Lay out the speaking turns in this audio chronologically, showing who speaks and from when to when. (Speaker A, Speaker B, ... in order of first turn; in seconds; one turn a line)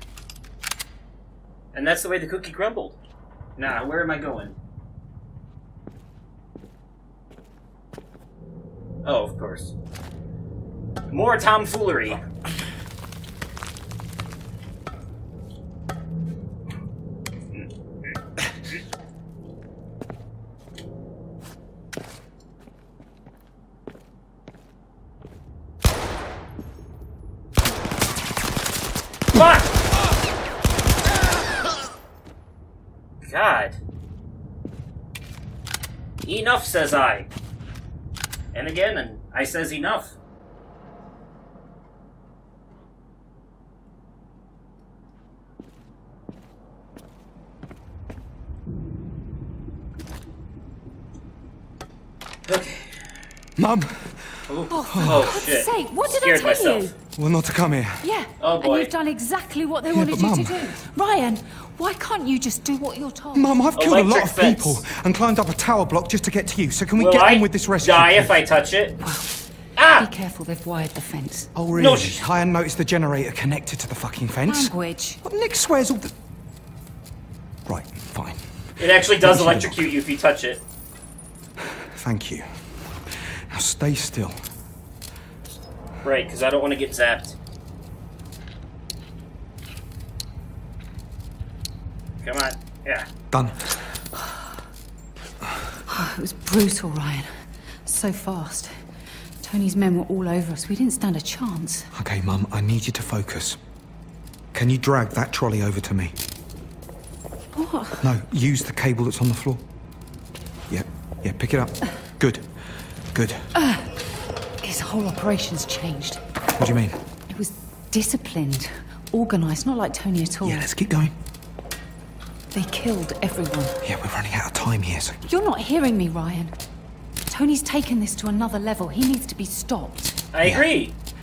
Speaker A: 1.7-3.0
Speaker A: 3.6-4.5
Speaker A: 9.0-9.7
Speaker A: 11.1-12.2
Speaker A: 29.3-29.7
Speaker A: 33.2-33.8
Speaker A: 36.2-37.3
Speaker A: 38.5-40.1
Speaker A: 52.5-53.1
Speaker B: 53.5-55.4
Speaker A: 54.5-56.9
Speaker C: 54.7-56.9
Speaker B: 57.2-58.1
Speaker C: 58.0-63.6
Speaker A: 58.4-58.9
Speaker B: 59.9-60.8
Speaker B: 63.3-68.4
Speaker A: 63.8-64.8
Speaker A: 66.9-69.0
Speaker C: 69.0-69.4
Speaker A: 69.8-70.1
Speaker C: 69.9-71.5
Speaker B: 71.5-76.1
Speaker A: 71.8-72.2
Speaker C: 74.5-75.2
Speaker B: 77.7-79.9
Speaker A: 78.8-80.6
Speaker B: 81.6-84.4
Speaker A: 86.0-87.3
Speaker A: 92.2-93.1
Speaker B: 93.3-94.0
Speaker C: 95.9-98.8
Speaker C: 99.4-101.9
Speaker B: 101.9-103.6
Speaker B: 104.5-106.2
Speaker C: 107.5-108.1
Speaker B: 108.0-109.6
Speaker B: 110.7-113.5
Speaker C: 113.5-113.9
Speaker C: 114.6-116.2
Speaker B: 116.6-117.0
Speaker C: 117.3-120.7
Speaker B: 120.4-121.1
Speaker C: 122.5-123.8
Speaker B: 123.8-125.2
Speaker C: 125.3-126.5
Speaker C: 127.3-130.2
Speaker A: 130.3-130.9